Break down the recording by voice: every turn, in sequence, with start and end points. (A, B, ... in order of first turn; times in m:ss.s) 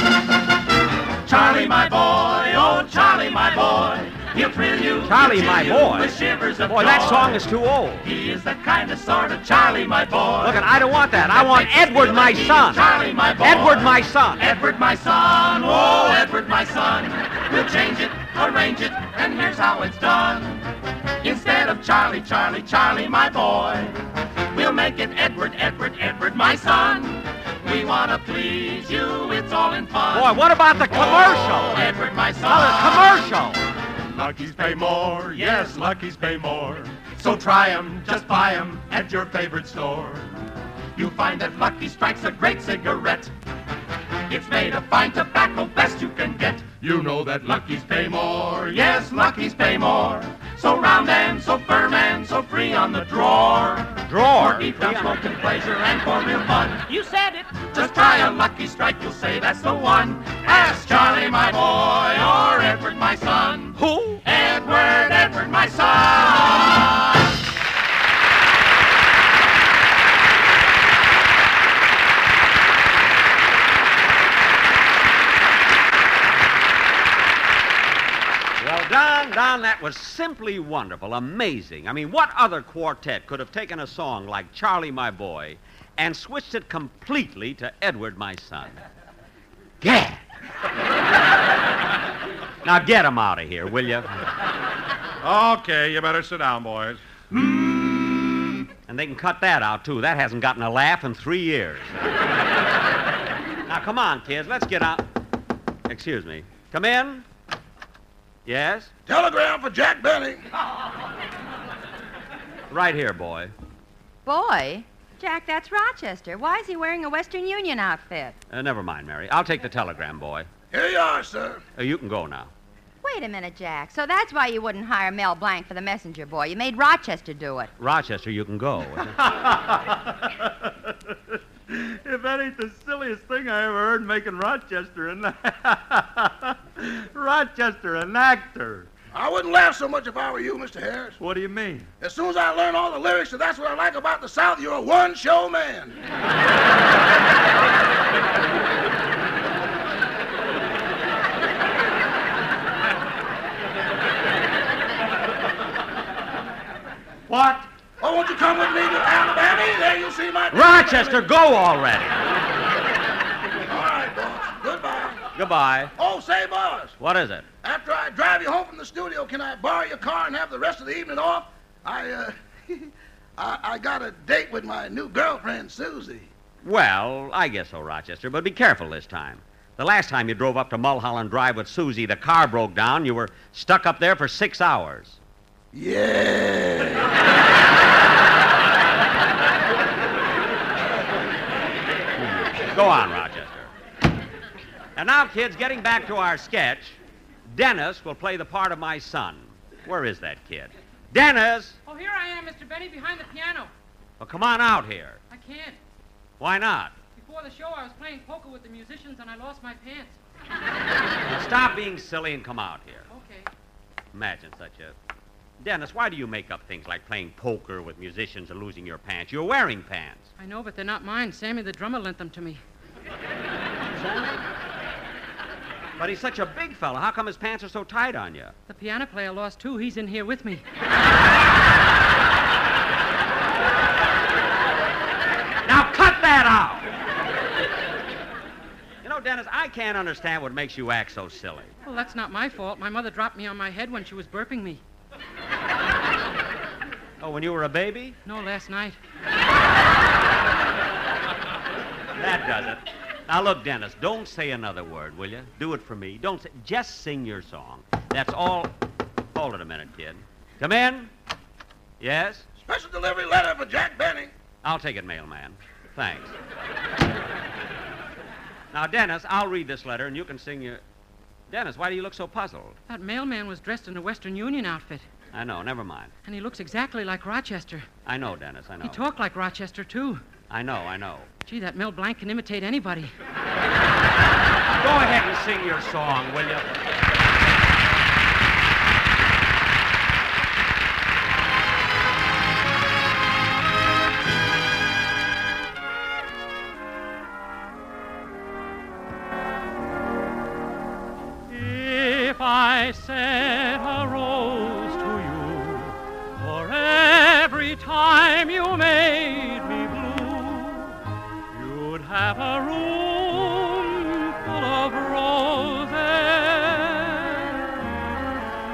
0:01.2-0:07.4 A
0:05.0-0:08.1 B
0:08.0-0:10.6 A
0:10.4-0:12.9 B
0:11.3-0:20.6 A
0:13.4-0:14.5 B
0:21.2-0:24.0 A
0:24.5-0:33.1 A
0:30.1-0:31.9 B
0:32.4-0:33.6 B
0:34.1-0:40.3 A
0:41.0-0:43.3 A
0:44.3-1:07.0 A
0:54.0-0:55.2 B
1:03.8-1:04.2 B
1:18.6-1:28.8 B
1:29.8-1:30.2 B
1:32.6-1:34.1 B
1:35.2-1:37.9 C
1:38.9-1:42.0 B
1:43.7-1:45.1 B
1:45.9-1:47.3 B
1:48.4-1:48.9 B
1:49.1-1:50.4 D
1:52.7-1:53.5 B
1:54.2-1:58.4 E
1:58.5-2:00.5 B
2:00.7-2:01.6 D
2:01.8-2:02.5 B
2:03.0-2:07.7 E
2:07.8-2:09.2 B
2:09.2-2:11.2 F
2:11.7-2:18.9 F
2:19.1-2:21.2 D
2:21.2-2:21.9 F
2:22.0-2:26.0 D
2:37.3-2:37.6 F
2:38.0-2:41.2 D
2:40.5-2:42.3 B
2:43.7-2:45.2 D
2:45.3-2:45.9 B
2:46.0-2:47.0 D
2:47.0-2:47.4 B
2:47.6-2:56.3 D
2:56.6-3:05.2 B
3:05.7-3:07.1 D
3:12.2-3:13.7 B
3:15.0-3:21.8 B
3:21.9-3:23.7 G
3:24.2-3:25.2 B
3:25.3-3:25.8 G
3:26.4-3:27.0 B
3:27.2-3:30.1 G
3:31.3-3:33.1 B
3:33.1-3:33.4 G
3:34.1-3:35.0 B
3:35.6-3:40.3 B
3:40.4-3:42.6 G
3:44.0-3:44.4 B
3:46.0-3:48.6 B
3:48.7-3:50.6 G
3:55.6-3:56.9 B
3:59.0-4:01.7 B
4:01.9-4:04.8 G
4:07.2-4:08.2 B
4:08.3-4:08.9 G
4:12.2-4:18.7 B
4:19.3-4:21.1 B
4:22.0-4:22.5 B
4:22.6-4:24.3 D
4:24.6-4:26.4 B
4:28.7-4:30.8 B
4:31.5-4:32.8 B
4:32.9-4:35.0 G
4:35.3-4:36.1 B
4:36.3-4:37.8 G
4:38.1-4:39.0 B
4:38.9-4:40.2 G
4:40.5-4:41.3 B
4:41.5-4:43.1 G
4:44.7-4:46.8 B
5:01.5-5:11.0 G
5:11.5-5:17.7 G